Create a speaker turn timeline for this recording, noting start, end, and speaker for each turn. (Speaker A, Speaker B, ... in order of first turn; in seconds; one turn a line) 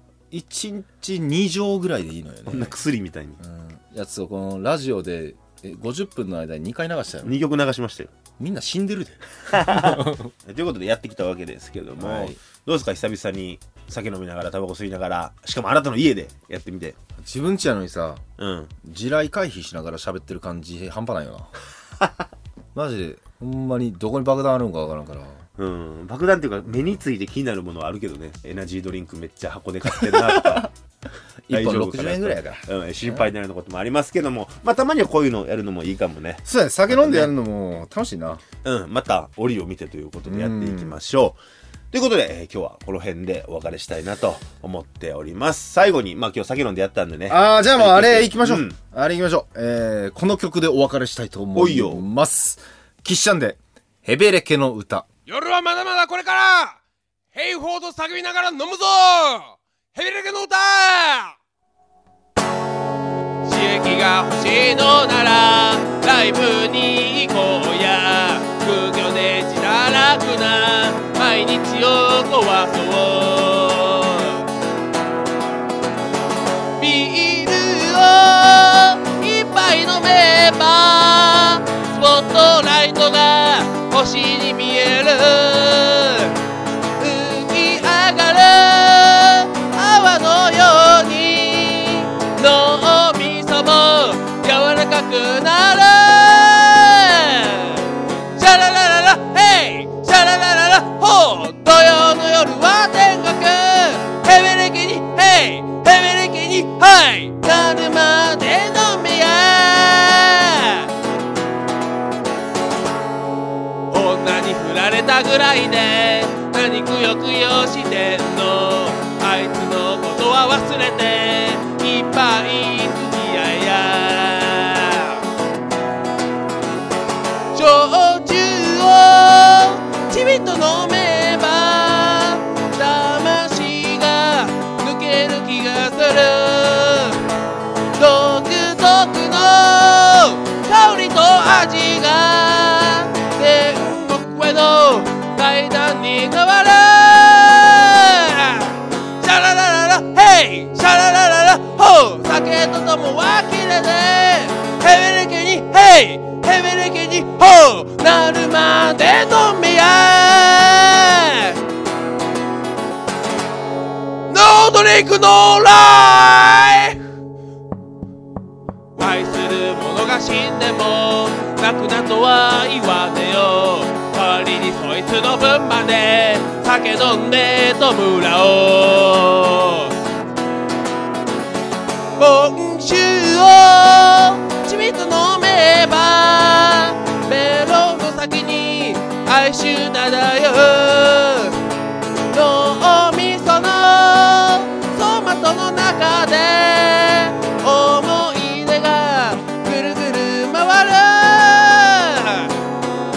Speaker A: 0.3-2.8
Speaker B: 2.5-3.4
Speaker A: 3.4-7.4
Speaker B: 7.2-8.1
Speaker A: 8.4-10.3
Speaker B: 9.5-17.0
Speaker A: 12.0-12.4
Speaker A: 17.2-18.2
Speaker B: 18.4-18.7
Speaker A: 18.8-21.5
Speaker A: 22.7-25.4
Speaker B: 25.6-30.7
Speaker A: 29.9-30.7
Speaker A: 31.5-33.3
Speaker B: 31.5-37.3
Speaker A: 36.5-38.4
Speaker B: 38.6-41.4
Speaker A: 40.3-41.0
Speaker B: 41.9-48.8
Speaker A: 47.3-55.1
Speaker B: 51.6-52.0
Speaker C: 55.3-56.8
Speaker C: 57.3-61.4
Speaker C: 63.5-74.5
Speaker C: 76.8-86.3
Speaker C: 87.0-97.9
Speaker C: 98.4-110.9
Speaker C: 113.9-125.2
Speaker C: 127.5-137.2
Speaker C: 138.0-161.6
Speaker C: 164.3-167.0
Speaker C: 169.0-179.9
Speaker C: 182.2-191.6
Speaker C: 192.3-202.5